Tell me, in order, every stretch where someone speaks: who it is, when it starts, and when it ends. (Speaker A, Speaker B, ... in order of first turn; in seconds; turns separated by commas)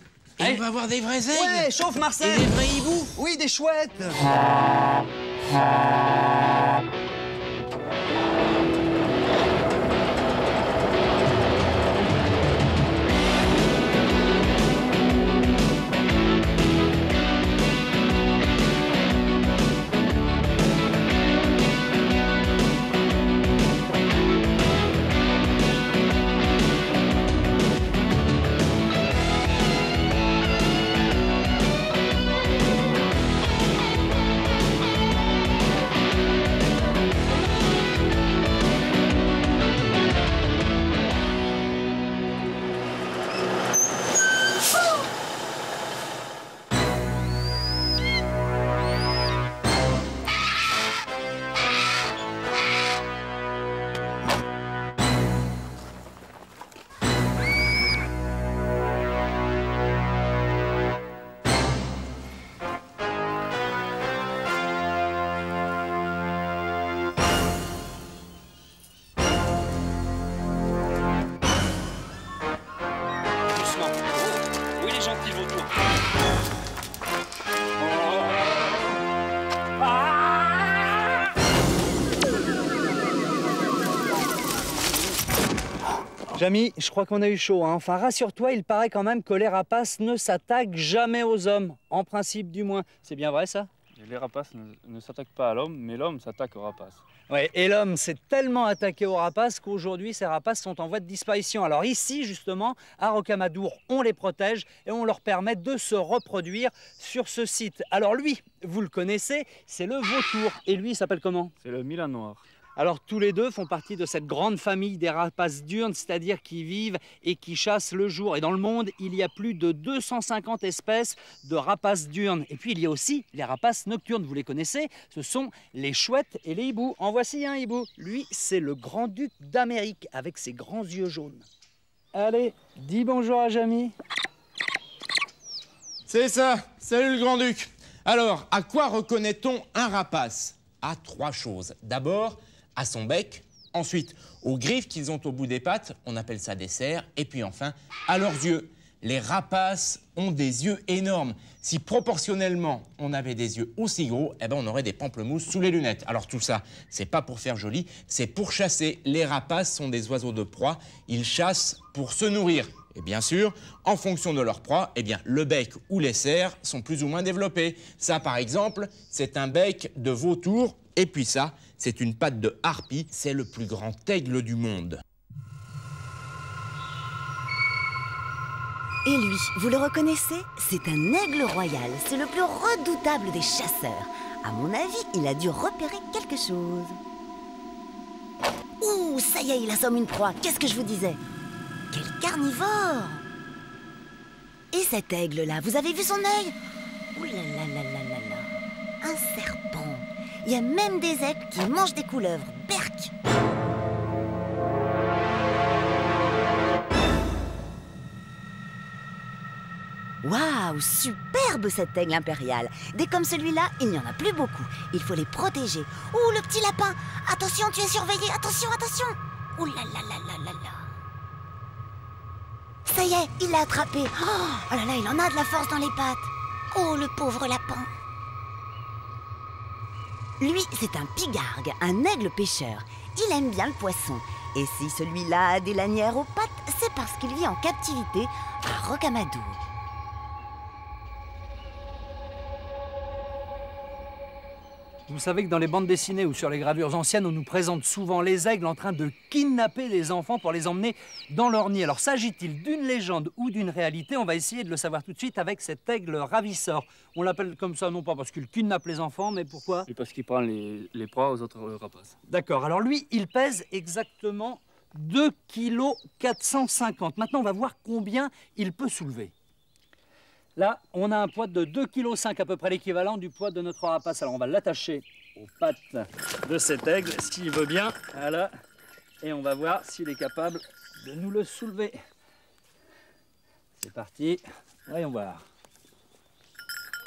Speaker A: 0.4-3.1, Speaker B: 1.3-4.3, Speaker B: 73.5-75.7, Speaker B: 86.3-93.7, Speaker C: 94.0-97.0, Speaker B: 97.3-111.5, Speaker C: 111.6-112.4, Speaker B: 112.8-131.5, Speaker B: 132.1-133.9, Speaker A: 136.1-175.0, Speaker D: 179.1-187.0, Speaker D: 188.8-191.2, Speaker D: 191.9-193.2, Speaker D: 194.7-196.6, Speaker D: 197.1-203.1, Speaker D: 210.2-220.9, Speaker D: 222.9-227.9, Speaker D: 230.4-239.6, Speaker B: 245.1-259.9, Speaker C: 259.9-262.1, Speaker B: 262.3-269.3, Speaker B: 270.6-278.5, Speaker B: 279.2-282.0, Speaker B: 283.8-285.4